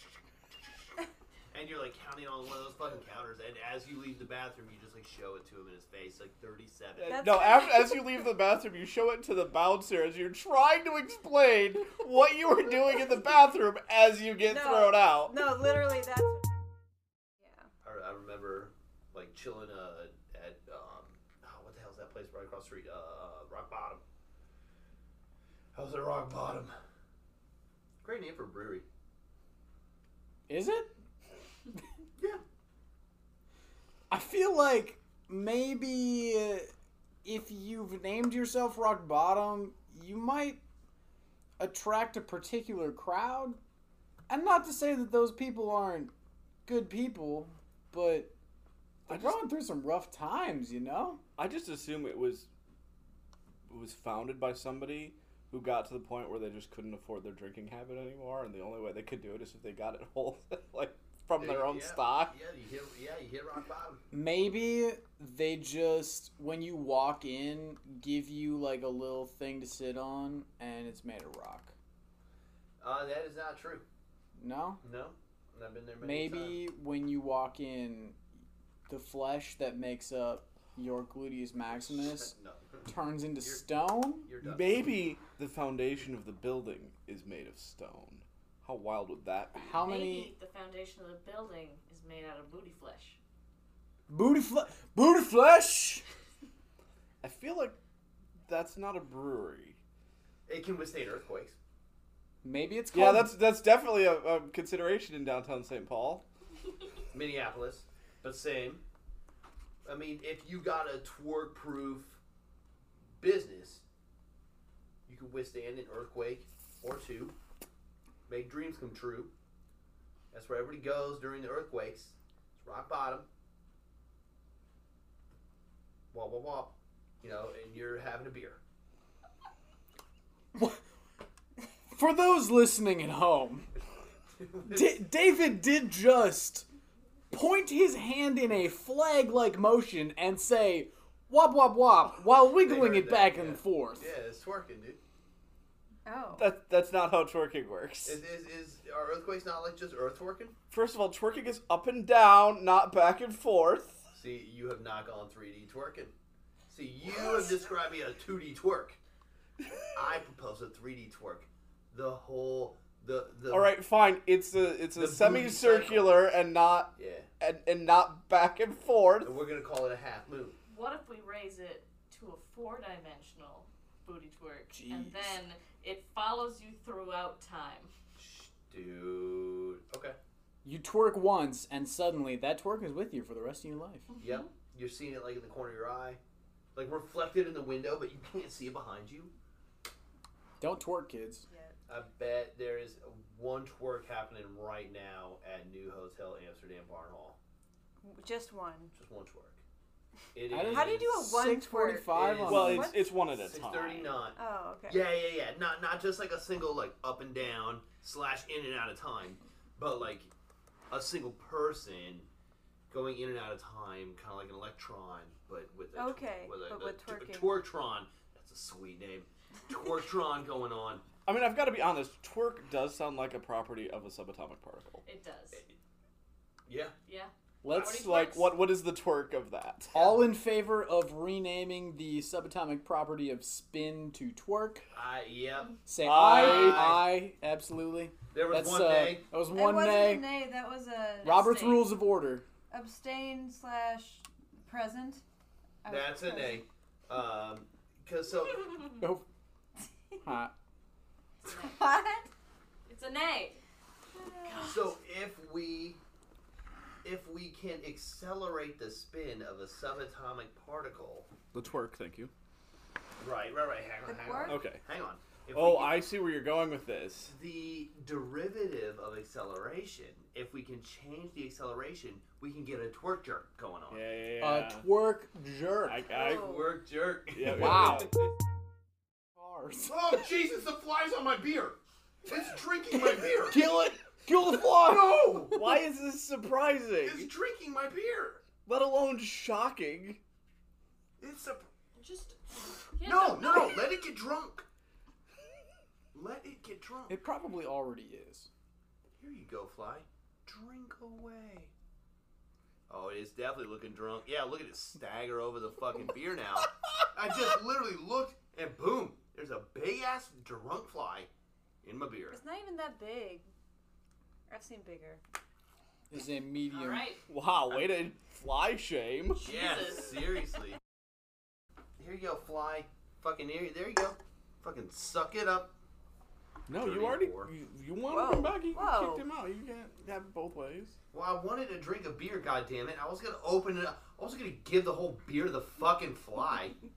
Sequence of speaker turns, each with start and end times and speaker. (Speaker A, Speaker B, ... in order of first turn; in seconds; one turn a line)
Speaker A: 1.5-7.2
Speaker B: 7.0-15.5
Speaker C: 7.1-8.2
Speaker C: 14.5-16.5
Speaker C: 17.4-17.7
Speaker A: 17.8-24.0
Speaker A: 25.7-26.7
Speaker A: 28.0-28.9
Speaker D: 30.5-30.9
Speaker D: 34.1-36.7
Speaker D: 37.2-40.6
Speaker D: 41.6-43.6
Speaker D: 44.3-46.1
Speaker D: 46.6-48.4
Speaker D: 49.1-51.2
Speaker B: 49.1-49.5
Speaker B: 51.4-52.5
Speaker B: 53.7-62.4
Speaker A: 61.4-64.0
Speaker D: 64.1-71.8
Speaker A: 72.8-73.8
Speaker D: 74.4-74.8
Speaker A: 74.8-76.6
Speaker D: 76.0-78.2
Speaker D: 78.9-82.3
Speaker A: 81.7-82.9
Speaker D: 82.9-84.3
Speaker A: 84.2-85.0
Speaker B: 84.4-89.8
Speaker D: 89.6-90.3
Speaker E: 89.8-93.2
Speaker D: 94.1-96.0
Speaker B: 97.2-97.8
Speaker B: 98.5-99.8
Speaker A: 100.5-101.6
Speaker D: 102.4-103.3
Speaker B: 102.9-106.2
Speaker A: 107.1-108.8
Speaker A: 109.8-112.2
Speaker A: 113.2-113.8
Speaker A: 115.1-117.3
Speaker A: 118.3-119.3
Speaker A: 120.3-123.3
Speaker A: 126.1-128.6
Speaker D: 130.6-130.8
Speaker D: 131.9-133.7
Speaker A: 134.4-134.9
Speaker D: 134.7-136.7
Speaker D: 137.3-144.1
Speaker A: 142.5-145.0
Speaker C: 146.1-146.5
Speaker B: 146.3-148.2
Speaker A: 148.1-150.6
Speaker B: 150.7-154.0
Speaker A: 154.1-156.1
Speaker A: 156.7-159.0
Speaker A: 159.9-163.8
Speaker B: 163.5-169.4
Speaker A: 164.9-166.3
Speaker A: 166.9-167.3
Speaker A: 169.2-170.6
Speaker E: 170.7-177.9
Speaker D: 174.7-175.4
Speaker A: 178.2-180.2
Speaker D: 180.6-184.1
Speaker E: 184.1-184.5
Speaker A: 184.2-186.2
Speaker A: 186.8-189.3
Speaker D: 190.6-191.4
Speaker C: 191.5-191.8
Speaker A: 191.9-197.4
Speaker C: 198.0-198.9
Speaker A: 198.9-199.6
Speaker A: 200.3-201.1
Speaker D: 200.5-202.9
Speaker C: 200.6-203.1
Speaker A: 202.1-210.3
Speaker B: 202.4-204.2
Speaker C: 204.4-205.1
Speaker A: 210.9-212.3
Speaker A: 212.9-221.1
Speaker C: 215.9-217.6
Speaker B: 221.3-225.0
Speaker E: 225.1-225.6
Speaker A: 226.7-226.9
Speaker E: 227.1-228.6
Speaker D: 227.6-227.9
Speaker B: 227.7-229.9
Speaker A: 229.9-230.3
Speaker D: 229.9-234.8
Speaker A: 234.9-237.1
Speaker D: 235.9-240.3
Speaker B: 236.0-237.1
Speaker A: 238.3-239.3
Speaker C: 239.5-241.5
Speaker E: 241.2-241.9
Speaker D: 241.2-242.4
Speaker C: 242.7-245.2
Speaker C: 245.8-246.6
Speaker A: 245.9-248.9
Speaker D: 249.0-249.2
Speaker D: 250.2-250.5
Speaker C: 251.4-252.3
Speaker E: 252.9-253.6
Speaker C: 254.1-254.8
Speaker E: 254.4-254.9
Speaker A: 254.6-256.0
Speaker A: 257.0-261.3
Speaker B: 261.5-262.3
Speaker A: 263.2-266.1
Speaker C: 264.1-264.6
Speaker B: 264.4-264.8
Speaker B: 265.5-267.3
Speaker A: 267.3-274.0
Speaker B: 273.9-274.9
Speaker D: 274.4-276.1
Speaker B: 275.9-276.5
Speaker C: 276.1-276.8
Speaker A: 276.3-278.3
Speaker B: 277.3-278.2
Speaker D: 277.4-278.2
Speaker D: 279.4-280.3
Speaker A: 279.9-283.7
Speaker D: 282.9-285.5
Speaker A: 284.8-285.8
Speaker B: 285.4-287.3
Speaker A: 287.0-288.4
Speaker B: 288.6-290.2
Speaker A: 291.2-291.7
Speaker E: 291.9-293.9
Speaker A: 293.0-294.6
Speaker A: 296.1-297.2
Speaker D: 297.1-298.5
Speaker A: 299.2-301.7
Speaker A: 302.9-311.3
Speaker A: 311.8-312.4
Speaker C: 312.3-313.5
Speaker C: 314.5-315.2
Speaker D: 316.1-317.1
Speaker E: 316.7-317.2
Speaker B: 317.3-319.5
Speaker E: 319.4-320.2
Speaker A: 319.4-320.8
Speaker A: 322.0-325.8
Speaker B: 326.7-330.9
Speaker A: 326.7-327.5
Speaker C: 328.1-329.2
Speaker A: 331.1-336.8